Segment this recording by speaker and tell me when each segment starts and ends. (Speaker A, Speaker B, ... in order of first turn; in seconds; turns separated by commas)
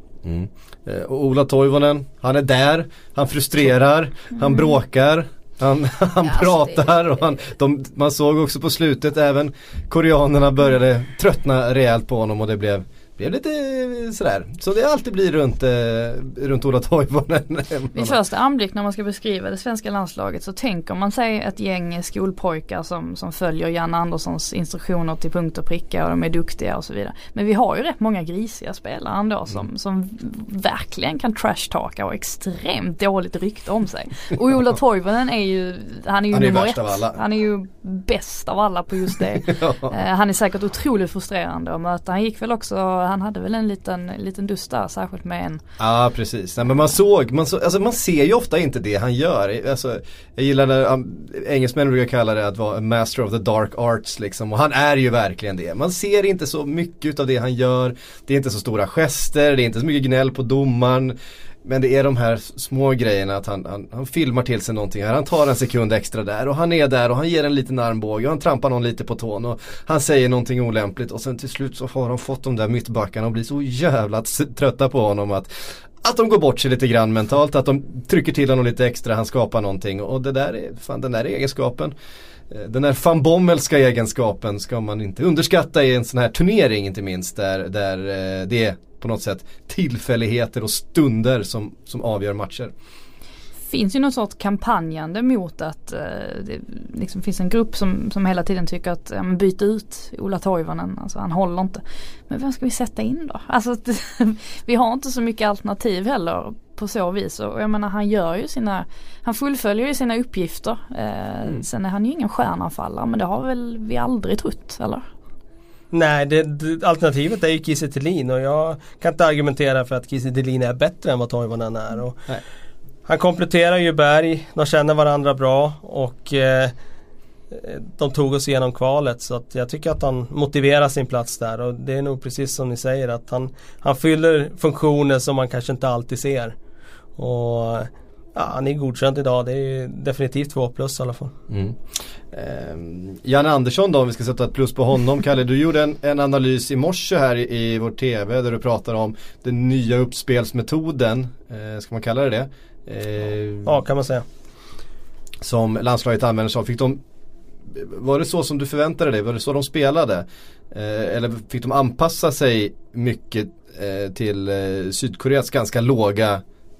Speaker A: 0.2-18.2, Speaker B: 17.9-45.6, Speaker A: 36.3-37.2, Speaker A: 39.5-39.9, Speaker A: 45.8-81.9, Speaker A: 82.5-92.7, Speaker B: 93.7-115.1, Speaker C: 115.9-122.2, Speaker C: 123.1-126.7, Speaker C: 127.5-136.6, Speaker C: 137.2-141.3, Speaker A: 141.5-141.8, Speaker A: 142.3-153.7, Speaker C: 153.7-154.2, Speaker A: 155.4-157.0, Speaker A: 157.7-166.4